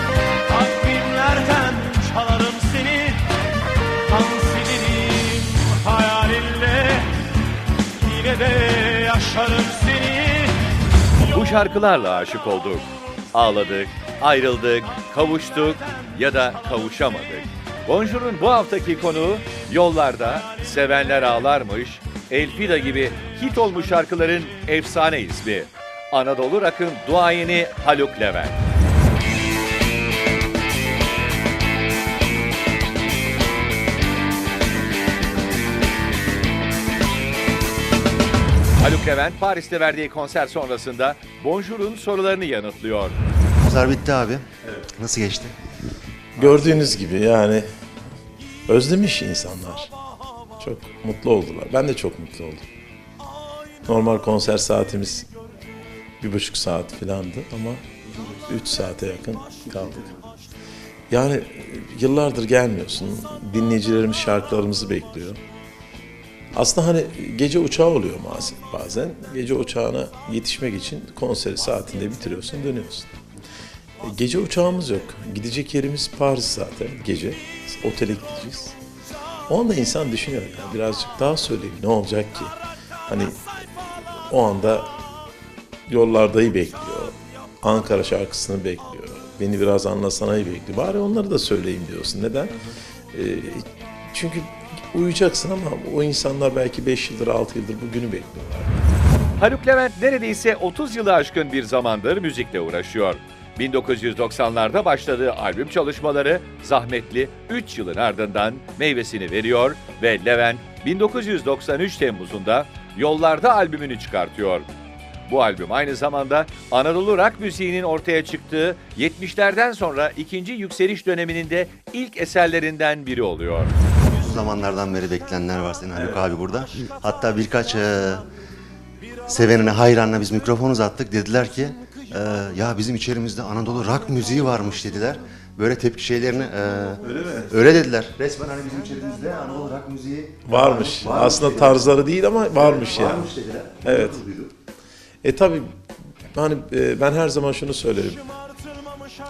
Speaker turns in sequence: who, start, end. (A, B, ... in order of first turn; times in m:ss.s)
0:00.5-0:03.2 A
0:04.1-0:07.3 A
0:08.0-0:10.6 A
0:11.3-0:28.6 B
0:38.8-0:43.2 B
0:43.6-0:45.5 C
0:46.4-0:47.6 D
0:48.7-0:49.9 D
0:50.6-0:52.6 D
0:53.8-0:55.3 D
0:56.2-0:57.8 D
0:58.5-1:00.1 D
1:00.0-1:00.3 C
1:01.1-1:05.4 D
1:06.5-1:13.1 D
1:14.0-1:18.8 D
1:19.5-1:22.5 D
1:23.1-1:24.9 D
1:25.9-1:32.6 D
1:33.1-1:38.8 D
1:39.4-1:54.7 B
1:55.3-2:03.7 B
2:04.1-2:08.2 C
2:09.3-2:21.9 C
2:17.0-2:17.5 D
2:20.4-2:23.3 D
2:22.5-2:24.5 C
2:23.8-2:24.2 D
2:25.2-2:25.8 D
2:26.3-2:28.2 D